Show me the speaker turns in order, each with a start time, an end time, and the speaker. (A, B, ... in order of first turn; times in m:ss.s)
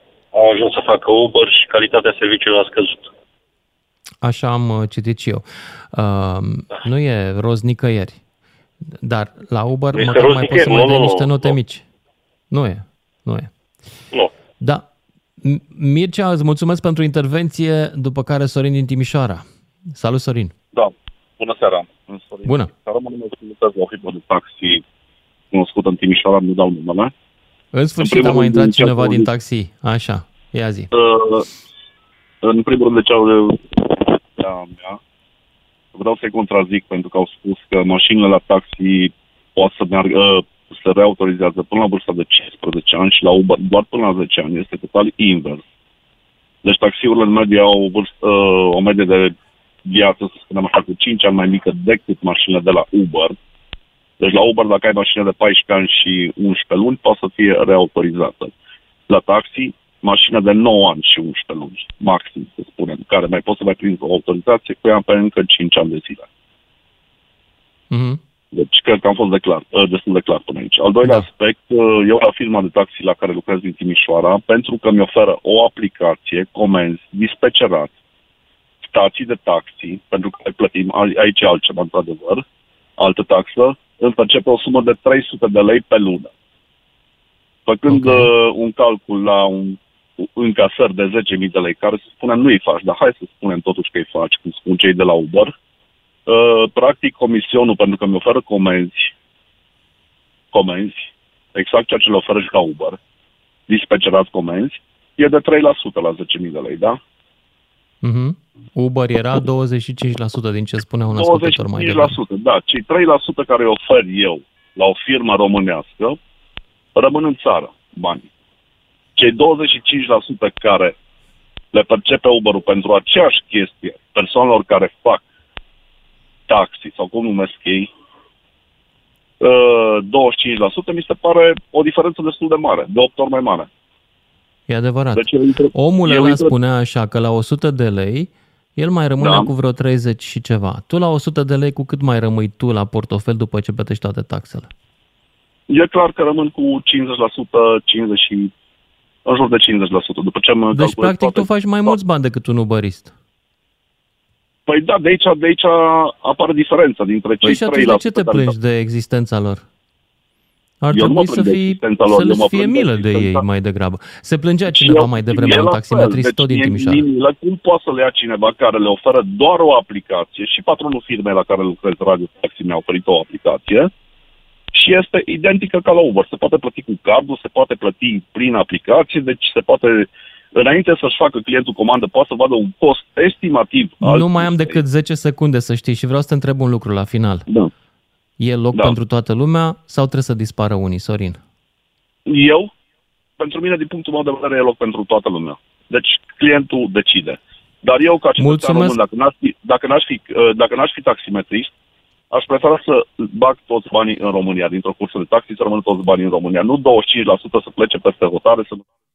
0:00.3-0:03.1 A
0:04.2-0:08.2 B
0:08.9-0:11.8 B
0:09.9-0:11.5 A
0:12.5-0:13.5 B
0:14.6-0:14.8 B
0:15.4-0:20.5 B
0:20.7-0:24.8 C
0:22.4-0:22.7 B
0:25.5-0:27.1 C
0:27.7-0:30.9 B
0:28.0-0:29.3 C
0:30.9-0:31.5 C
0:32.4-0:35.0 C
0:35.9-0:45.6 C
0:46.6-0:49.3 C
0:49.8-0:53.3 C
0:54.2-0:58.5 C
0:59.1-1:06.3 C
1:07.9-1:08.2 B
1:08.5-1:17.9 C
1:18.9-1:22.4 C
1:23.0-1:26.3 C
1:27.6-1:35.5 C
1:27.9-1:28.3 B
1:36.3-1:39.1 C
1:40.5-1:43.0 C
1:43.7-1:47.0 C
1:48.0-1:52.2 B
1:51.1-1:56.2 C
1:56.9-1:58.3 C
1:59.2-2:00.9 C
2:01.7-2:05.2 C
2:06.5-2:07.9 C
2:09.4-2:13.7 C
2:14.7-2:24.7 B
2:15.2-2:16.5 C
2:19.2-2:19.5 C
2:25.7-2:28.5 C
2:29.2-2:32.0 C
2:30.7-2:33.1 B
2:34.7-2:38.5 C
2:37.4-2:39.6 B
2:40.8-2:47.0 B
2:40.9-2:43.4 C
2:44.7-2:53.9 C
2:54.7-3:04.8 C
3:04.0-3:07.5 B
3:08.4-3:11.4 B
3:12.3-3:12.7 C
3:13.4-3:21.7 C
3:18.4-3:19.0 B
3:22.3-3:28.8 C